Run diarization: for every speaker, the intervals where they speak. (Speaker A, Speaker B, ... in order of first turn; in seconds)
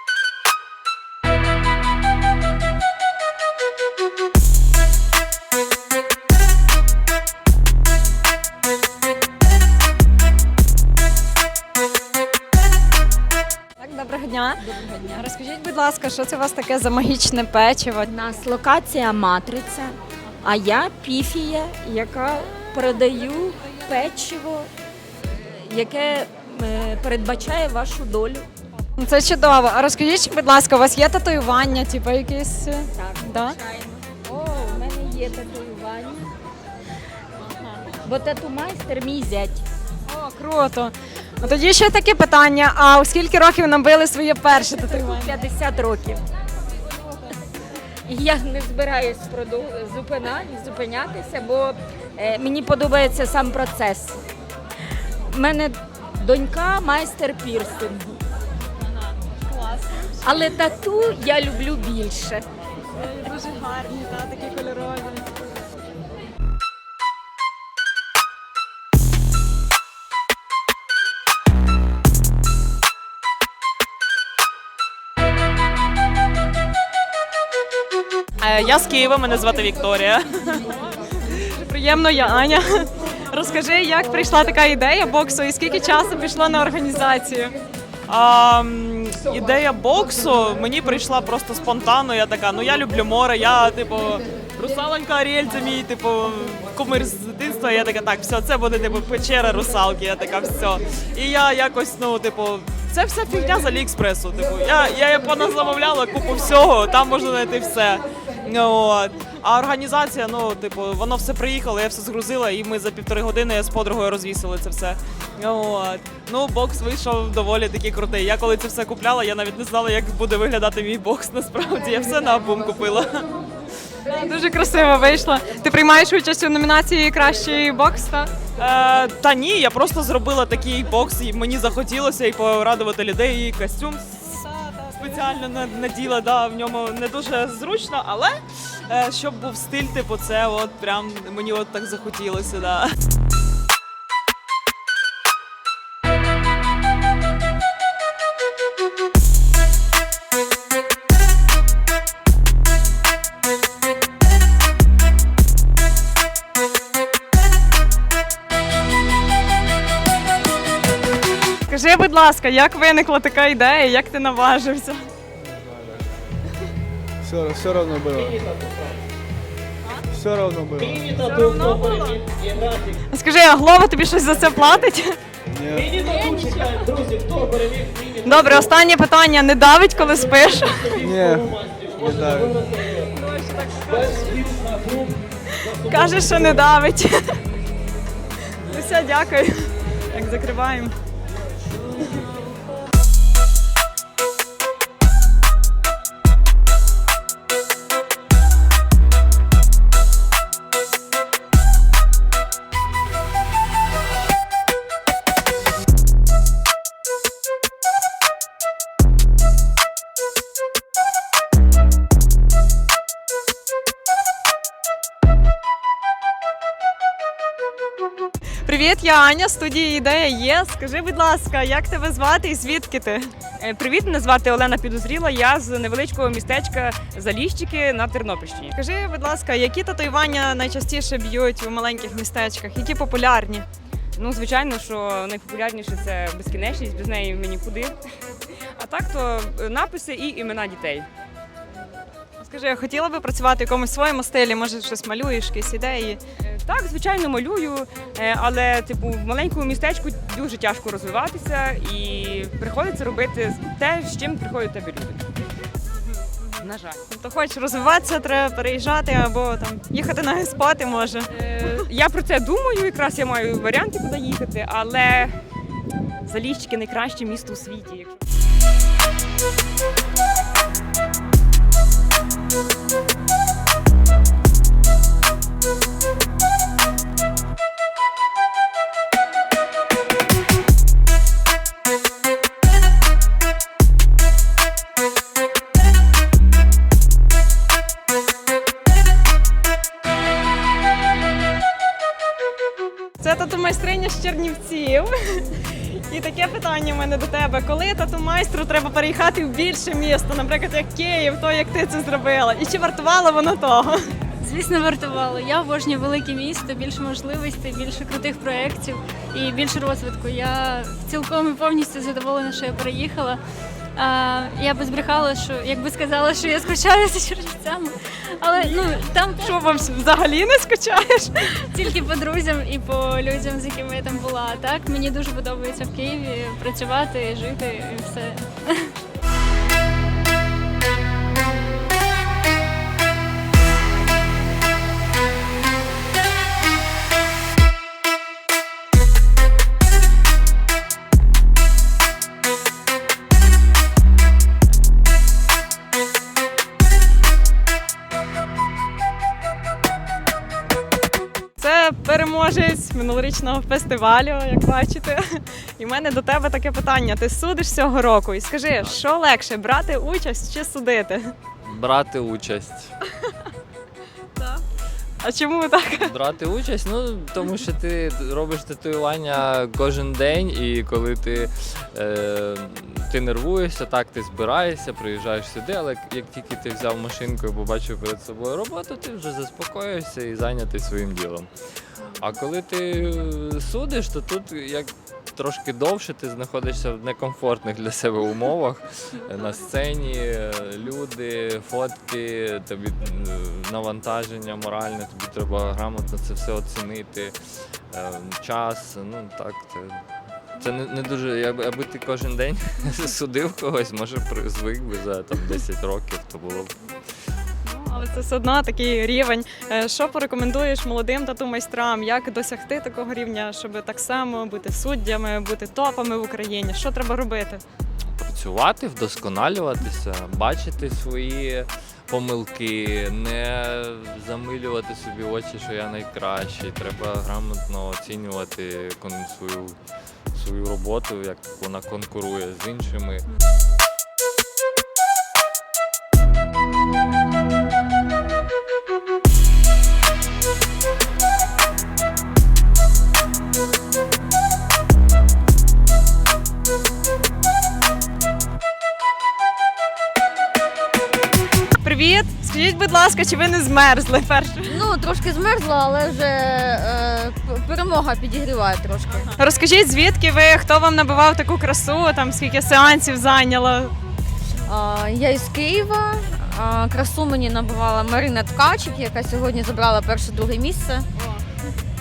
Speaker A: 13.8-14.6, 15.1-18.1, 29.0-33.6, 40.1-45.3, 59.5-59.9, 63.0-65.3, 81.4-87.5, 124.1-128.3, 134.3-135.3, 161.7-165.1, 171.2-172.2, 173.1-175.1, 176.1-176.5, 178.2-180.9, 183.1-184.5, 185.8-187.4, 188.6-190.9, 218.7-223.3, 228.8-233.7, 242.4-246.2, 257.1-261.8, 293.2-295.6, 296.1-304.0, 318.6-321.4, 351.6-361.3, 365.2-366.1, 407.7-417.6, 451.8-454.8, 459.4-463.9
Speaker B: 14.6-15.3, 18.1-24.7, 25.6-28.5, 32.9-36.3, 38.0-39.6, 44.5-46.2, 48.1-54.2, 55.3-58.2, 60.2-62.4
Speaker C: 78.4-80.3, 88.1-123.2, 128.6-134.3, 135.0-142.9
Speaker D: 165.4-166.1, 167.2-168.4, 170.1-171.1, 175.5-175.9, 181.0-182.6
Speaker E: 223.6-228.7, 234.2-237.9, 238.8-241.1, 246.4-255.2, 256.6-257.0, 261.3-265.4, 266.3-268.1
Speaker F: 304.4-313.4, 314.0-319.9, 321.7-328.9
Speaker G: 361.6-362.9, 365.9-381.5, 382.1-407.2, 407.9-408.2, 417.9-433.3
Speaker H: 454.6-459.4, 464.6-471.1